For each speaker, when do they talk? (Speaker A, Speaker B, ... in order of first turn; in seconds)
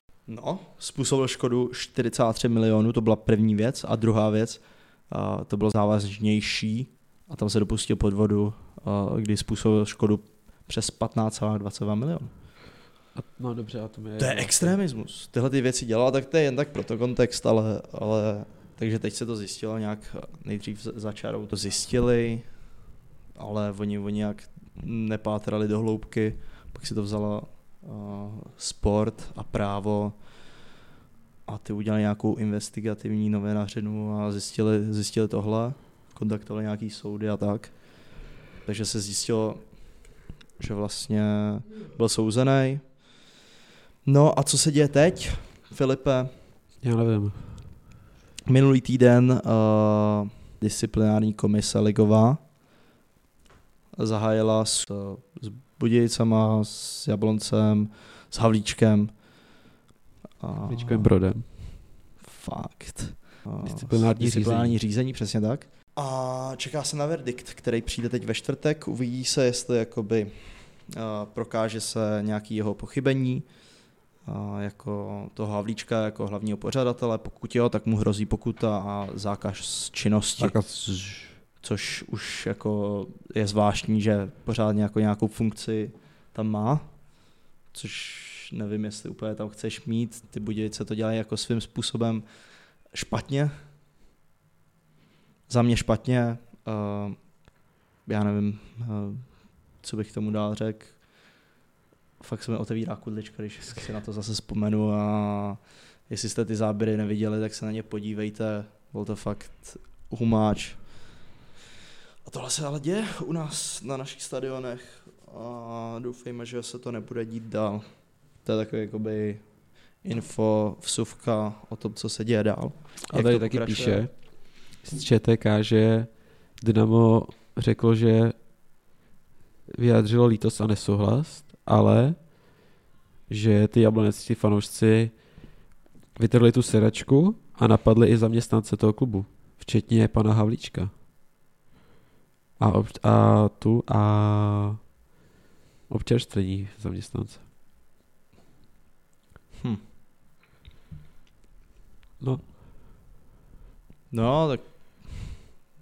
Speaker A: 0.3-12.3, 14.2-22.6, 23.4-30.2, 31.5-43.2, 44.0-46.4, 48.5-52.4, 53.9-59.1, 60.4-61.2, 62.2-73.5, 74.2-80.6, 81.6-87.0, 87.7-92.2, 92.9-93.5, 95.5-97.3, 98.0-101.1, 102.2-111.2, 112.2-124.1, 154.1-155.3
Speaker B: 13.1-14.8, 46.8-47.7, 60.6-61.5, 63.6-64.8, 80.4-81.4, 123.1-128.4, 129.7-132.5, 133.3-135.4, 136.1-140.9, 142.6-144.8, 145.9-147.4, 152.2-152.5